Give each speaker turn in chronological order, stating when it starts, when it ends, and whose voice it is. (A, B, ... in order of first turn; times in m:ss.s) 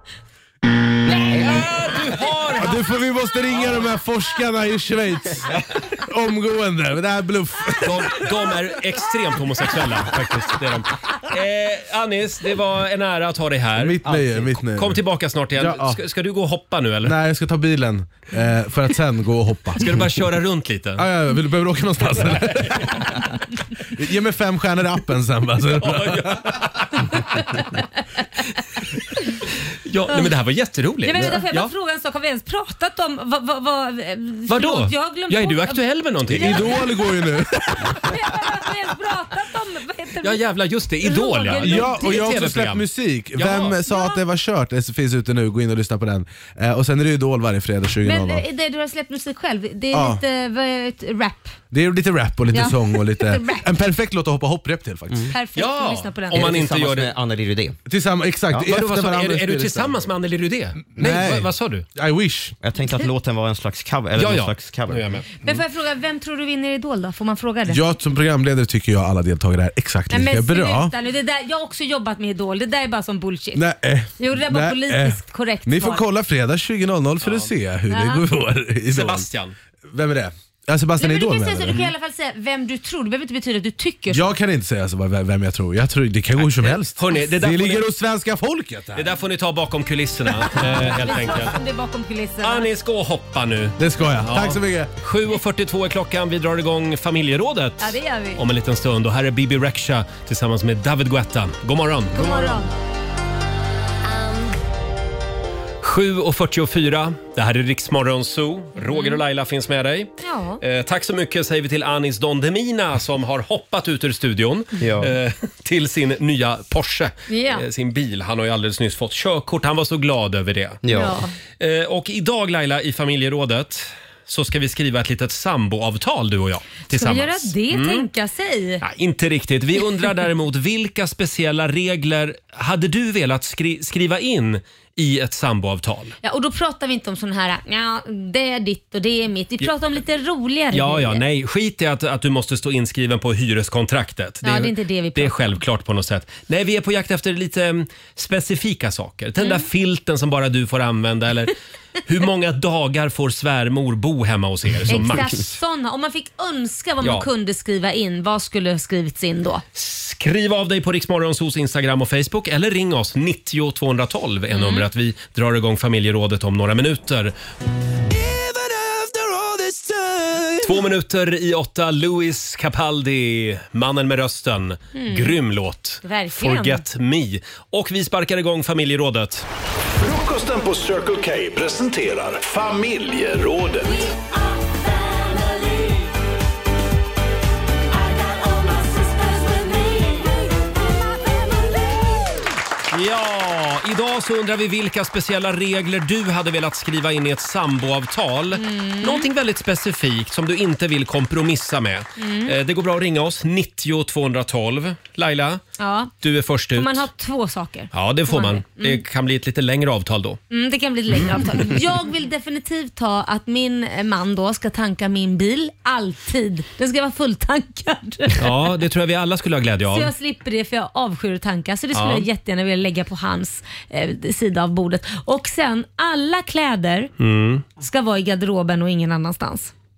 0:01.2-0:01.6 A
0:01.3-0:03.8 B
0:02.6-0:08.4 C
0:07.8-0:17.2 B
0:13.8-0:16.0 C
0:17.0-0:20.2 C
0:19.8-0:21.1 B
0:21.0-0:23.5 C
0:22.4-0:23.0 B
0:24.0-0:27.2 C
0:25.7-0:26.9 B
0:29.8-0:31.7 B
0:31.0-0:40.4 D
0:34.5-0:37.0 B
0:36.3-0:38.4 C
0:40.2-0:43.8 B
0:41.0-0:42.2 D
0:41.5-0:48.5 C
0:43.9-0:44.2 D
0:48.0-0:51.6 D
0:49.9-0:50.2 C
0:51.7-0:55.3 C
0:52.5-0:53.7 D
0:55.3-0:56.5 D
0:55.6-0:57.1 B
0:56.3-0:57.8 A
0:57.9-1:00.0 C
0:58.6-1:01.9 B
1:00.8-1:02.6 C
1:02.6-1:05.1 A
1:04.2-1:05.3 B
1:05.4-1:07.8 D
1:07.7-1:10.9 C
1:10.1-1:13.6 D
1:13.6-1:19.3 C
1:14.2-1:16.0 D
1:17.2-1:17.5 B
1:17.9-1:18.2 D
1:18.9-1:19.5 B
1:19.9-1:21.9 C
1:21.0-1:24.3 D
1:24.1-1:29.1 C
1:26.4-1:27.9 B
1:29.0-1:31.6 B
1:30.3-1:30.9 C
1:31.0-1:32.7 D
1:32.4-1:42.6 B
1:33.8-1:34.9 C
1:37.8-1:38.4 D
1:42.1-1:42.7 D
1:45.8-2:00.8 B
1:48.8-1:49.2 D
1:50.2-1:50.6 D
1:54.8-1:55.1 A
1:57.3-1:57.7 D
2:00.8-2:01.2 A
2:00.9-2:01.3 D
2:01.6-2:08.1 B
2:06.9-2:08.8 D
2:08.8-2:16.2 B
2:16.2-2:21.2 D
2:20.7-2:31.5 B
2:24.4-2:25.6 D
2:29.4-2:29.7 D
2:32.0-2:35.6 B
2:34.9-2:39.6 D
2:37.0-2:37.3 B
2:39.8-2:47.3 B
2:44.5-2:44.9 D
2:50.0-2:50.4 C
2:50.5-2:59.5 B
2:54.9-2:55.4 D
2:56.0-2:56.8 D
3:00.0-3:04.1 E
3:12.9-3:25.6 B
3:18.5-3:19.3 D
3:22.2-3:22.6 D
3:25.8-3:26.1 D
3:26.2-3:27.0 B
3:26.8-3:29.0 D
3:27.9-3:30.4 B
3:30.5-3:38.5 D
3:31.1-3:31.7 B
3:38.4-3:40.1 B
3:39.9-3:47.1 D
3:41.9-3:42.3 B
3:47.2-3:47.6 B
3:47.8-3:49.7 D